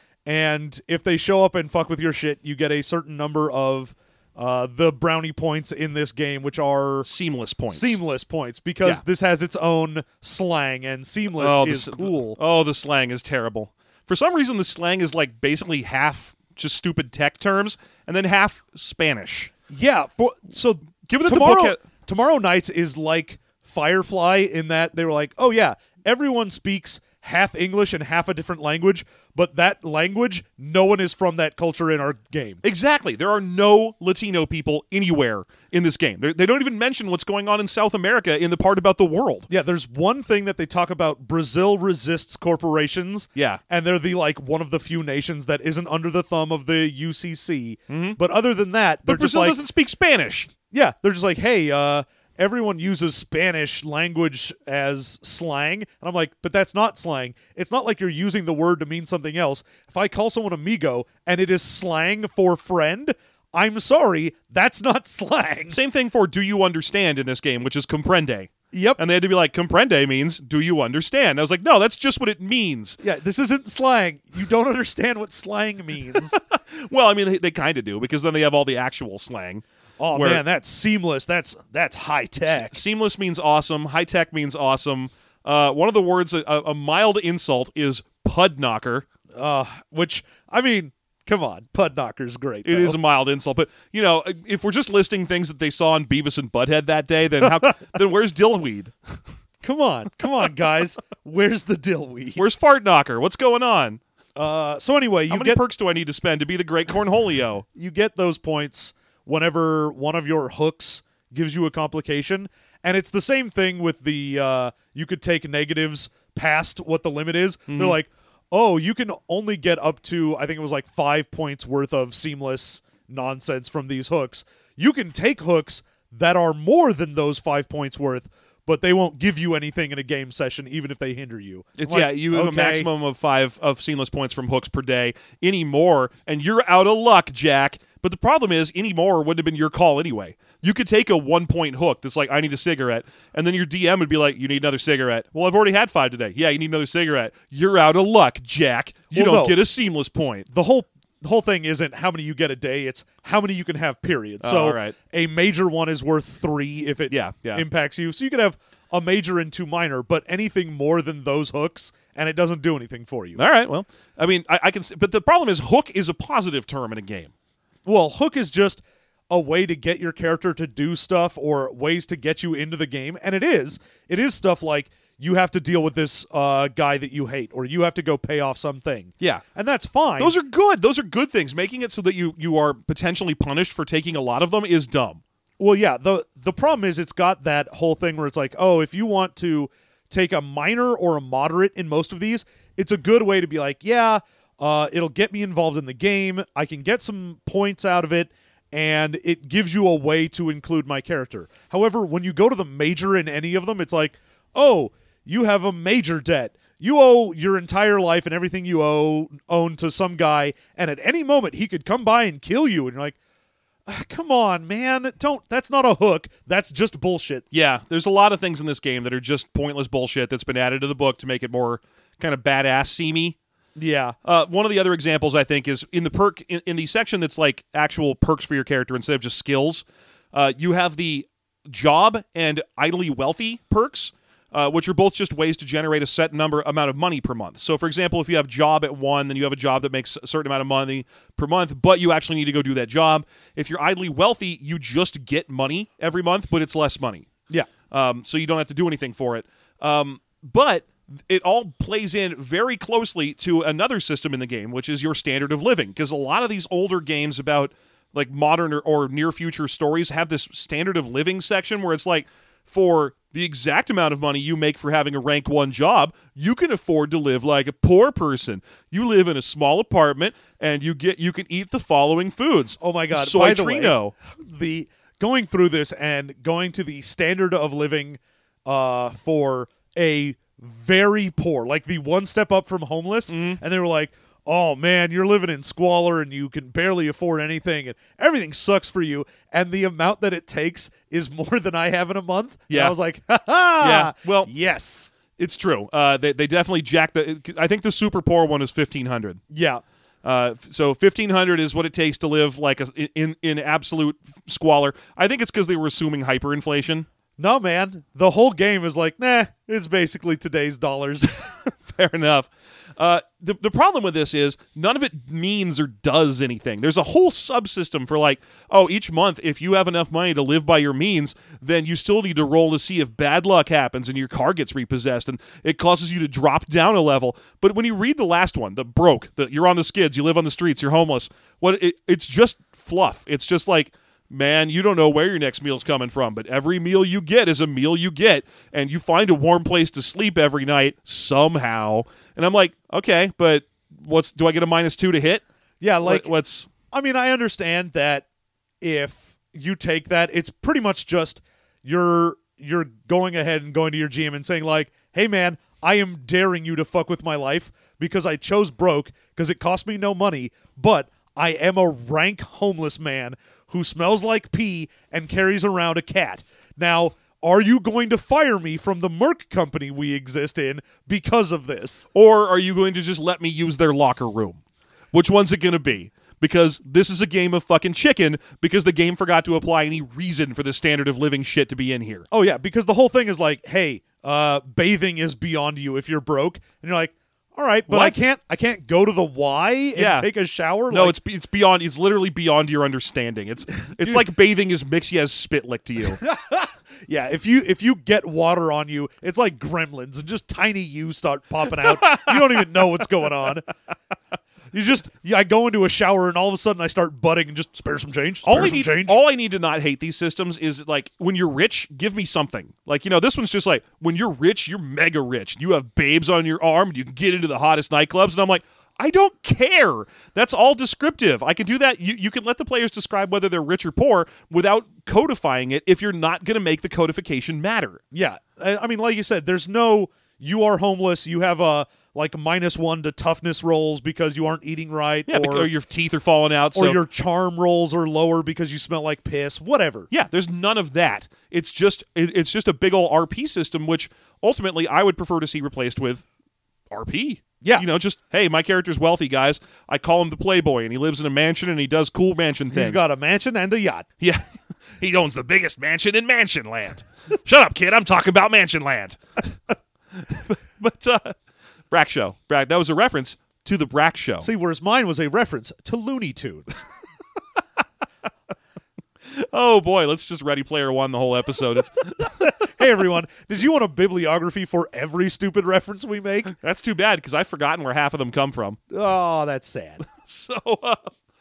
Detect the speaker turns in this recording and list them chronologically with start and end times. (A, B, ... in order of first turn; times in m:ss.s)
0:00.2-0:07.1 A
0:07.0-0:08.0 B
0:07.7-0:12.4 A
0:11.4-0:19.5 B
0:19.7-0:32.6 A
0:21.0-0:21.8 B
0:32.6-0:39.5 B
0:39.5-0:49.6 A
0:43.3-0:43.6 B
0:47.9-0:48.2 B
0:49.0-0:50.5 B
0:50.7-1:05.8 A
1:05.7-1:13.0 B
1:08.7-1:09.0 A
1:13.0-1:16.4 A
1:16.2-1:20.4 B
1:20.0-1:22.8 A
1:22.5-1:29.0 B
1:29.3-1:33.0 A
1:32.6-1:38.9 B
1:39.6-1:42.4 A
1:42.4-1:44.0 B
1:44.4-1:45.6 A
1:45.3-1:47.6 B
1:47.7-2:12.9 A
1:57.7-1:58.0 B
2:11.8-2:30.5 B
2:29.1-2:29.6 A
2:30.5-2:43.4 A
2:34.4-2:34.9 B
2:37.1-2:37.6 B
2:43.4-2:47.3 B
2:47.8-3:00.3 A
3:00.2-3:05.2 B
3:05.6-3:33.2 A
3:33.8-3:37.4 A
3:37.5-3:43.4 B
3:43.8-3:44.2 A
3:44.2-4:07.3 B
4:07.9-4:34.1 B
4:32.8-4:55.1 A
4:43.3-4:43.6 B
4:53.8-4:54.5 B
4:55.4-4:59.4 B
4:59.5-4:59.8 A
5:00.2-5:07.1 B
5:07.4-5:11.5 A
5:11.3-5:45.4 B
5:45.8-5:46.3 A
5:46.0-5:46.7 B
5:46.9-5:48.2 A
5:48.8-6:12.1 A
6:12.1-6:14.6 B
6:15.1-6:22.2 B
6:22.3-6:31.2 A
6:27.9-6:28.2 B
6:30.0-6:30.3 B
6:30.9-6:36.2 B
6:36.2-6:43.7 A
6:42.0-6:42.3 B
6:44.7-6:49.2 A
6:48.4-7:08.0 B
7:08.1-7:15.7 A
7:15.3-7:17.0 B
7:16.7-7:20.1 A
7:20.1-7:26.2 B
7:26.9-7:33.0 B
7:32.7-7:34.1 A
7:35.0-7:39.4 B
7:40.2-7:41.3 B
7:41.9-7:44.5 B
7:44.4-7:46.8 A
7:49.3-7:52.5 B
7:52.2-7:56.5 A
7:56.5-7:58.8 B
7:58.9-8:00.0 A
8:00.0-8:01.1 B